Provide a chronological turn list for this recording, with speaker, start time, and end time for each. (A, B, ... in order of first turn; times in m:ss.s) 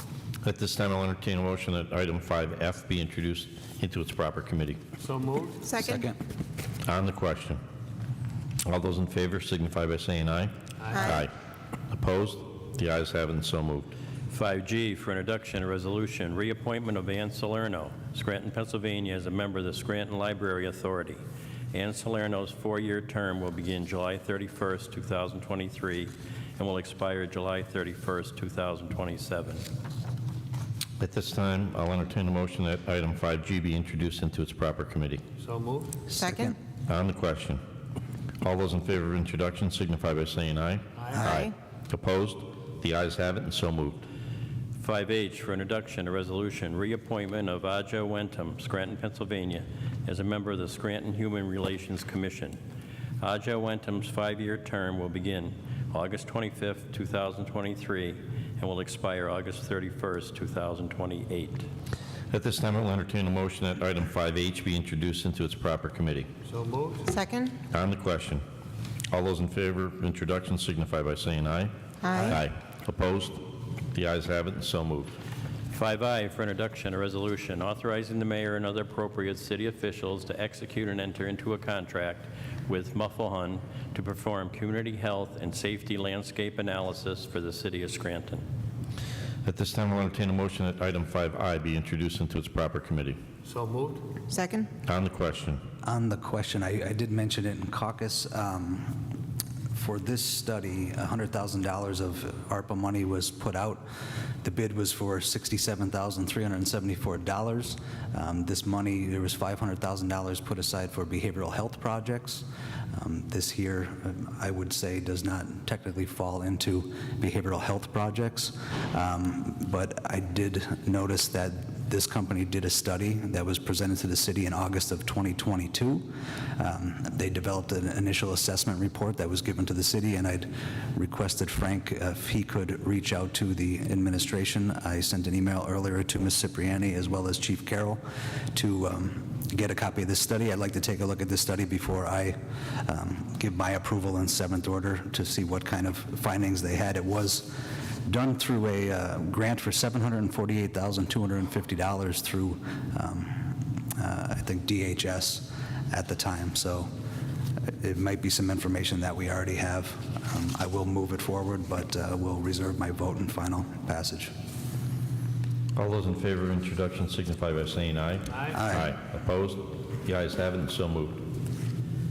0:00.4-0:04.8 A
0:05.0-0:05.6 B
0:05.6-0:06.1 C
0:05.8-0:06.2 D
0:06.8-0:07.6 A
0:08.6-0:11.3 A
0:10.8-0:11.2 B
0:10.9-0:11.2 C
0:11.9-0:13.9 A
0:14.3-0:21.2 E
0:21.7-0:29.6 E
0:31.0-0:35.2 A
0:35.4-0:36.0 B
0:36.1-0:36.6 D
0:36.2-0:36.6 C
0:36.9-0:37.6 A
0:38.4-0:44.1 A
0:41.0-0:41.2 B
0:41.2-0:41.5 C
0:44.8-0:52.6 E
0:53.2-1:01.7 E
1:02.3-1:06.3 A
1:06.4-1:07.1 B
1:07.1-1:07.6 C
1:07.7-1:08.4 A
1:09.1-1:15.2 A
1:12.0-1:12.4 C
1:15.7-1:28.4 E
1:29.4-1:33.2 A
1:33.4-1:34.1 B
1:34.3-1:34.7 C
1:34.8-1:35.6 A
1:35.8-1:39.0 D
1:39.7-1:43.8 D
1:44.4-2:36.9 D
2:37.8-2:44.3 D
2:45.8-2:51.3 A
2:48.5-2:48.9 D